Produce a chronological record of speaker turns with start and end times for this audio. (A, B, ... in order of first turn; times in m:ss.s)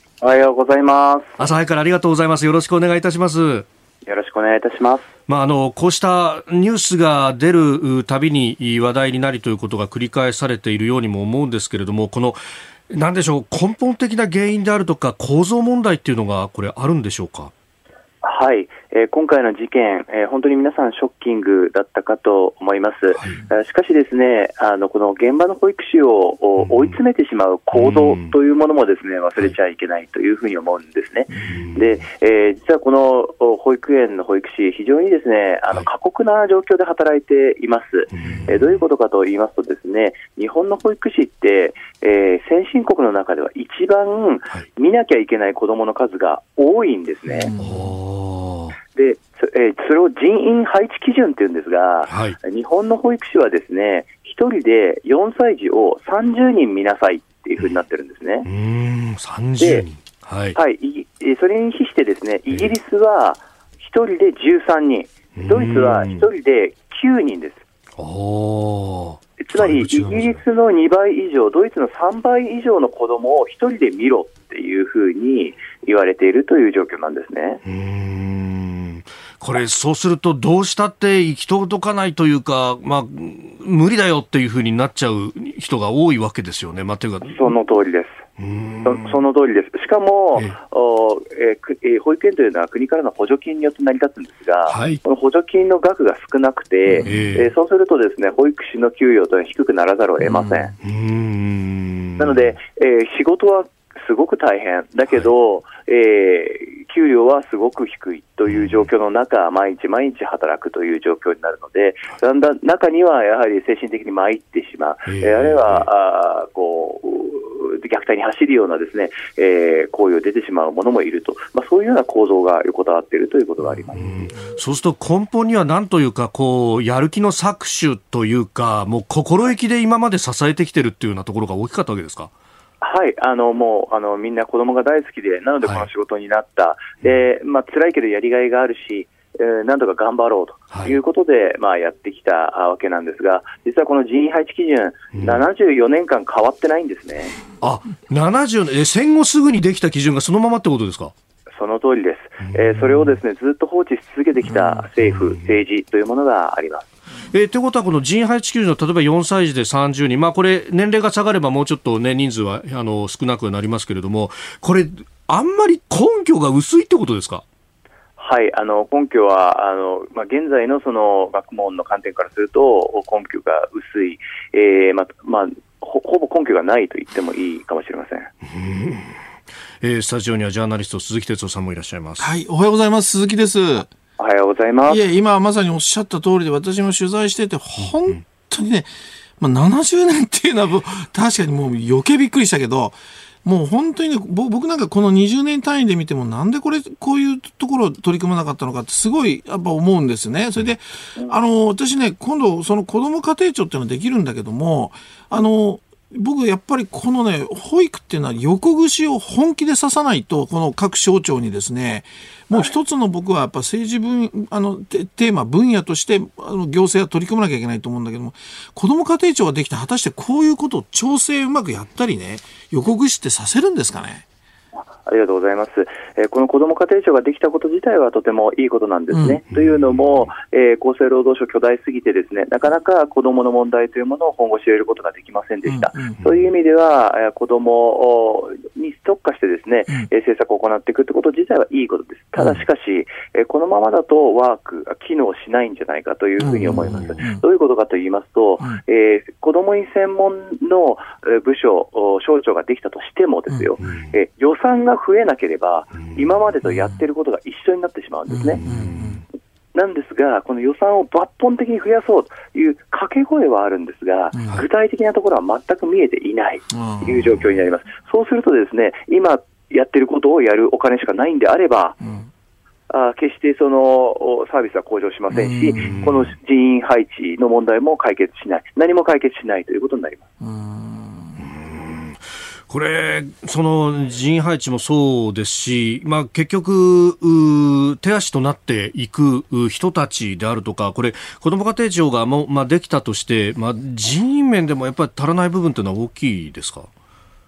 0:00.2-0:01.4 A
0:01.4-0:03.7 B
0:04.1-0:05.1 A
0:05.3-0:17.5 B
0:18.2-0:47.5 A
0:26.6-0:27.0 B
0:27.7-0:28.4 B
0:31.5-0:32.0 B
0:38.1-0:38.8 B
0:47.3-0:47.9 C
0:47.6-0:48.8 B
0:49.0-0:58.5 A
0:52.1-0:52.4 B
0:58.4-1:00.6 B
0:59.6-0:59.8 A
1:00.6-1:07.6 A
1:02.5-1:02.8 B
1:05.4-1:06.3 B
1:08.0-1:10.4 B
1:09.4-1:17.6 A
1:17.6-1:27.5 B
1:27.3-1:28.2 A
1:28.4-1:29.2 B
1:28.8-1:40.7 A
1:34.7-1:35.0 B
1:36.9-1:37.3 C
1:37.0-1:37.5 B
1:40.2-1:40.7 C
1:40.8-1:42.5 B
1:42.2-2:04.1 A
1:48.5-1:48.9 B
1:55.1-1:55.9 B
2:03.9-2:12.3 B
2:12.8-2:27.4 A
2:15.6-2:15.9 B
2:20.7-2:21.0 B
2:25.1-2:25.4 B
2:27.6-2:31.1 B
2:31.6-2:36.9 A
2:32.4-2:33.2 B
2:35.0-2:35.5 B
2:37.3-2:47.4 B
2:48.2-2:58.3 A
2:58.4-2:59.2 B
2:59.8-3:02.3 B
3:02.2-3:03.9 C
3:04.2-3:05.0 A
3:04.9-3:44.2 C
3:45.0-4:18.6 A
3:49.1-3:49.4 C
3:49.5-3:50.3 B
3:55.7-3:56.2 C
3:56.2-3:56.5 B
4:06.4-4:07.4 C
4:06.9-4:07.2 B
4:13.5-4:13.8 C
4:13.8-4:14.1 B
4:16.6-4:17.0 C
4:18.3-4:19.2 C
4:18.6-4:19.2 B
4:19.7-4:32.0 A
4:24.3-4:24.6 C
4:26.7-4:27.4 C
4:32.0-4:32.3 C
4:32.9-4:40.2 A
4:35.3-4:36.1 C
4:35.8-4:36.3 B
4:40.4-4:41.4 C
4:41.4-4:56.9 B